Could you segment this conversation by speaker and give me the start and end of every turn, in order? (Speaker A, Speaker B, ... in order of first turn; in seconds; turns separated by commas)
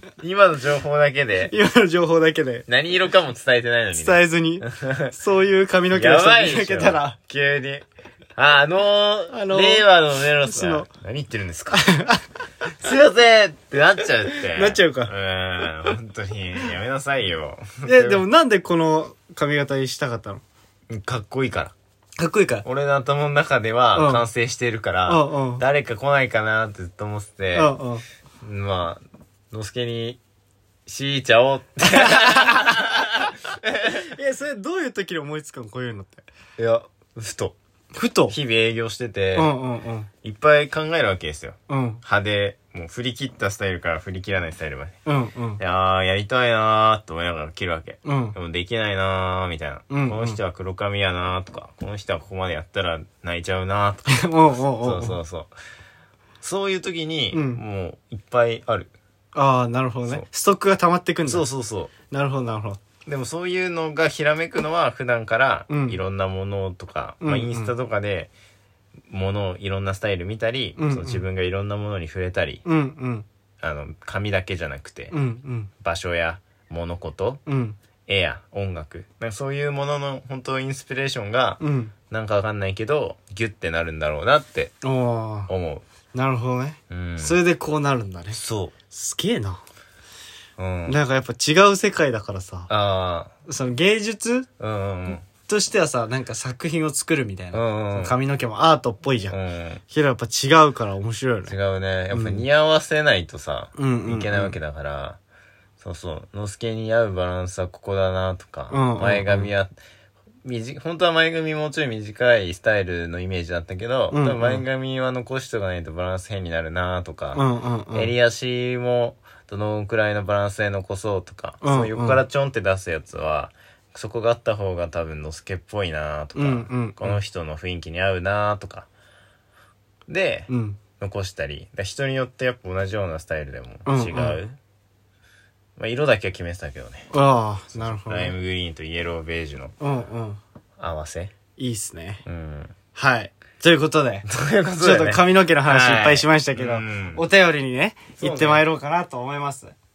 Speaker A: 0.2-1.5, Speaker B: 1.5-2.7, Speaker A: 2.7-5.1, Speaker B: 3.9-7.2, Speaker A: 5.9-7.8, Speaker A: 8.4-11.8, Speaker B: 9.3-9.9, Speaker B: 10.5-10.9, Speaker B: 11.7-12.2, Speaker A: 12.8-18.2, Speaker B: 14.5-15.1, Speaker B: 17.8-20.4, Speaker A: 20.9-21.7, Speaker B: 22.2-22.6, Speaker A: 22.6-27.7, Speaker B: 23.9-24.3, Speaker B: 25.1-25.6, Speaker B: 27.5-28.0, Speaker A: 28.4-30.2, Speaker A: 30.9-34.0, Speaker B: 31.9-32.8, Speaker B: 33.9-36.2, Speaker A: 36.6-37.5, Speaker B: 37.9-38.4, Speaker A: 38.3-39.5, Speaker B: 39.4-40.1, Speaker A: 40.2-45.0, Speaker B: 41.7-42.0, Speaker B: 45.0-45.6, Speaker A: 45.6-55.5, Speaker B: 48.0-48.4, Speaker B: 49.9-50.4, Speaker B: 54.1-55.2, Speaker A: 56.4-58.9, Speaker B: 57.3-57.6, Speaker B: 59.4-61.5, Speaker A: 61.3-61.9, Speaker B: 62.1-62.8, Speaker A: 63.1-68.3, Speaker B: 65.7-66.0, Speaker B: 67.2-67.7, Speaker A: 69.1-72.6, Speaker B: 70.8-71.2, Speaker B: 72.7-73.3, Speaker A: 73.6-75.1, Speaker B: 75.1-75.7, Speaker A: 75.8-77.4, Speaker B: 77.5-77.8, Speaker A: 78.1-81.6, Speaker B: 81.6-81.9, Speaker A: 82.1-84.7, Speaker B: 84.8-85.5, Speaker A: 85.5-85.8, Speaker B: 86.1-88.4, Speaker A: 86.9-87.4, Speaker A: 88.3-88.7, Speaker B: 88.9-89.6, Speaker A: 90.6-91.0, Speaker B: 90.9-92.7, Speaker A: 92.7-93.3, Speaker B: 93.5-94.5, Speaker A: 94.6-95.2, Speaker B: 95.3-99.3, Speaker A: 97.5-98.2, Speaker A: 99.3-99.8, Speaker B: 99.9-101.5, Speaker A: 101.5-105.2, Speaker B: 102.1-102.5, Speaker B: 103.8-104.5, Speaker A: 105.8-109.7, Speaker B: 108.7-109.5, Speaker A: 110.4-128.9, Speaker B: 114.1-114.6, Speaker B: 117.3-118.1, Speaker B: 121.6-122.2, Speaker B: 126.4-127.2, Speaker A: 130.1-130.5, Speaker B: 130.5-130.8, Speaker A: 131.0-134.6, Speaker B: 133.9-134.4, Speaker A: 135.8-137.1, Speaker B: 137.1-138.3, Speaker A: 137.7-139.7, Speaker B: 139.8-140.4, Speaker A: 140.8-141.3, Speaker B: 141.6-142.2, Speaker A: 142.2-142.7, Speaker B: 142.9-144.3, Speaker A: 144.3-147.2, Speaker B: 144.8-149.7, Speaker A: 148.2-148.6